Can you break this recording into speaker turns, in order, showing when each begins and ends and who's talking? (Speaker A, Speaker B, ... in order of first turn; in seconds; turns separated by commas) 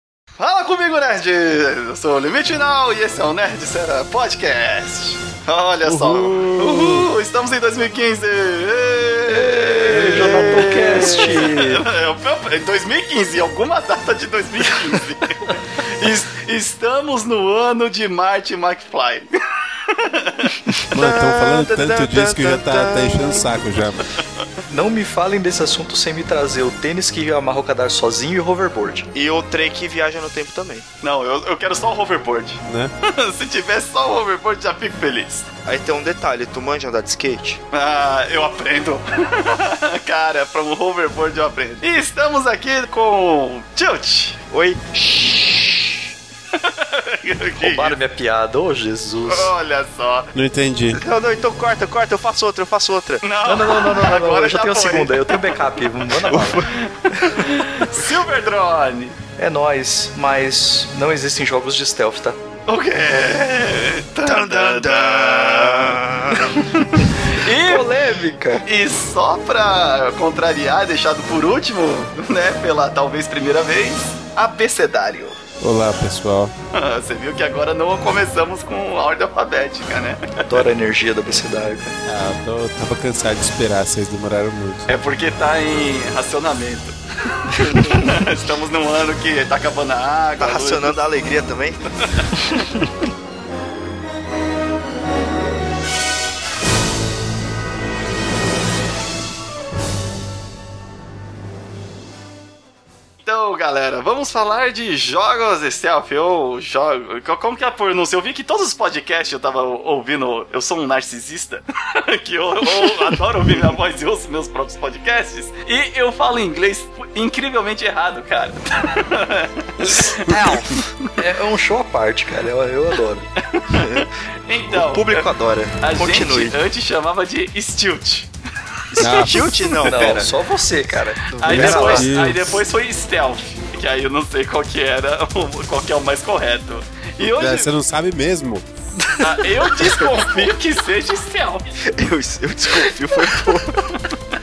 Speaker A: 0.4-20.6, Speaker B: 5.8-7.1, Speaker C: 9.3-11.8, Speaker D: 10.6-11.0, Speaker D: 20.9-23.5, Speaker B: 20.9-24.1, Speaker C: 24.7-29.1, Speaker D: 29.1-30.9, Speaker A: 31.0-35.5, Speaker B: 32.7-32.9, Speaker D: 35.6-37.6, Speaker A: 37.7-44.4, Speaker D: 44.5-46.1, Speaker A: 46.5-48.0, Speaker C: 47.6-49.5, Speaker A: 49.2-50.3, Speaker B: 50.3-51.0, Speaker D: 50.9-53.2, Speaker A: 53.2-55.7, Speaker C: 53.4-56.6, Speaker D: 56.3-57.4, Speaker A: 56.7-59.2, Speaker C: 57.2-57.8, Speaker C: 59.4-62.4, Speaker A: 62.7-66.1, Speaker D: 64.2-66.6, Speaker C: 66.5-68.6, Speaker A: 67.0-68.0, Speaker A: 68.6-75.4, Speaker B: 75.6-76.5, Speaker A: 76.7-80.6, Speaker C: 80.4-82.0, Speaker B: 82.0-84.9, Speaker A: 84.9-91.0, Speaker D: 90.4-91.8, Speaker A: 92.0-92.7, Speaker A: 103.2-120.9, Speaker C: 119.8-120.6, Speaker D: 120.2-120.6, Speaker C: 121.2-123.2, Speaker A: 123.5-125.3, Speaker D: 123.7-124.1, Speaker D: 124.7-126.6, Speaker A: 125.8-128.3, Speaker A: 128.9-130.2, Speaker D: 129.0-130.3, Speaker B: 129.0-129.4, Speaker C: 129.8-132.1, Speaker D: 131.3-132.1, Speaker A: 131.4-137.7, Speaker B: 131.5-132.6, Speaker B: 137.4-138.6, Speaker C: 139.0-139.9, Speaker A: 139.2-141.7, Speaker D: 141.8-143.9